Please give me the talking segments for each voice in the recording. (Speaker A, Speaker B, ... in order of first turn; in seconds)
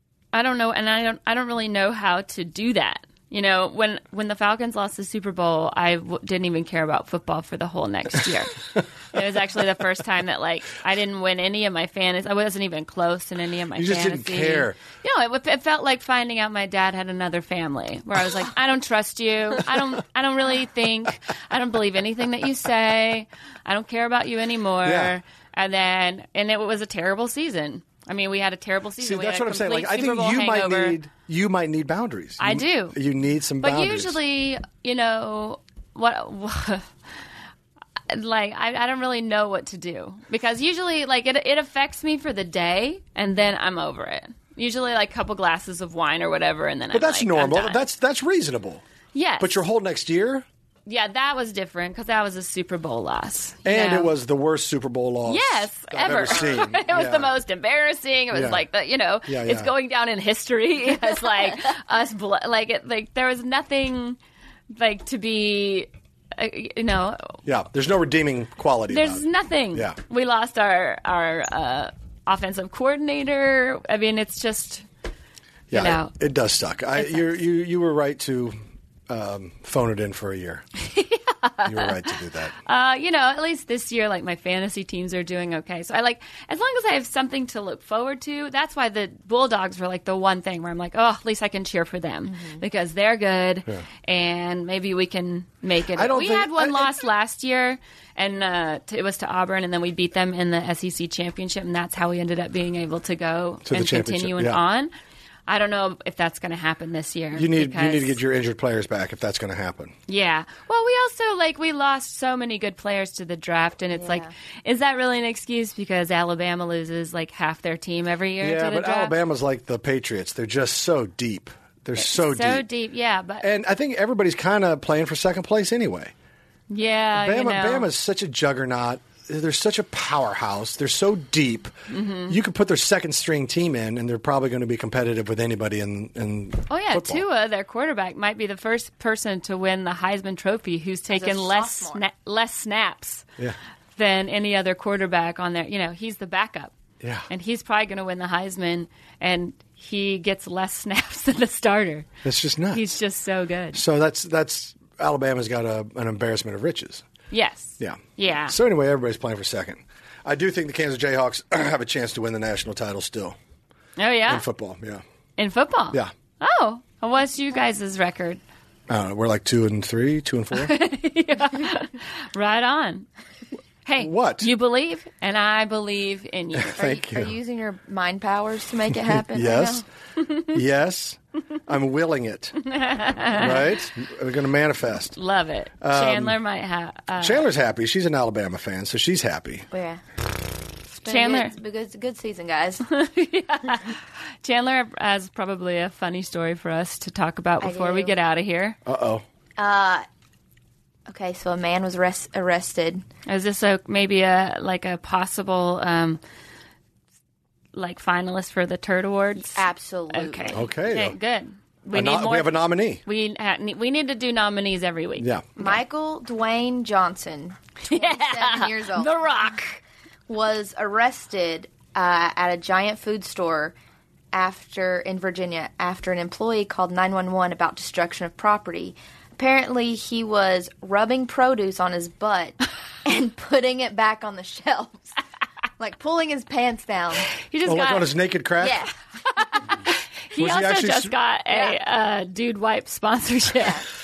Speaker A: 0.3-31.0, 32.4-33.0, 33.6-36.9, 38.1-47.8, 49.1-49.6, 50.9-54.1, 55.3-64.2, 64.7-67.4, 68.9-74.8, 75.7-76.1, 77.0-77.4, 80.8-81.9, 82.6-104.9, 105.5-108.2, 110.1-119.2, 122.0-123.5, 126.7-127.9, 131.9-132.4, 136.7-143.2, 143.9-146.7, 147.3-152.1, 152.7-153.8, 157.3-158.6, 164.0-164.4, 165.4-168.4, 170.5-173.1, 173.9-176.8, 182.6-183.8, 185.1-187.4, 191.0-191.6, 192.9-198.8, 203.3-206.2, 207.7-215.8, 217.8-219.8, 237.4-238.1, 239.3-243.8
Speaker B: 13.7-14.8, 24.8-25.2, 29.0-34.2, 46.9-48.8, 49.4-50.5, 53.6-57.3, 58.3-58.6, 59.3-59.7, 67.5-70.0, 75.7-78.6, 79.1-80.6, 81.6-82.5, 96.0-97.0, 103.7-104.6, 107.3-110.0, 118.4-122.6, 123.4-126.1, 127.1-131.7, 132.3-137.2, 147.0-147.3, 152.2-152.8, 153.7-157.1, 157.8-163.4, 164.3-165.0, 168.9-170.7, 174.0-174.5, 176.5-177.4, 178.9-179.8, 180.5-182.6, 183.3-185.2, 185.8-186.4, 187.2-189.7, 198.9-199.2, 210.5-211.2, 211.9-213.0, 215.2-215.5, 237.6-238.9, 240.3-241.2
Speaker C: 92.3-92.6, 113.9-114.3, 141.1-142.0, 176.8-179.8, 189.7-190.0, 191.0-192.8, 197.6-198.2, 199.6-200.1, 201.1-203.1, 209.6-210.6, 215.6-219.4, 220.3-223.8, 224.3-235.2, 235.8-237.3, 238.6-238.9, 241.5-241.8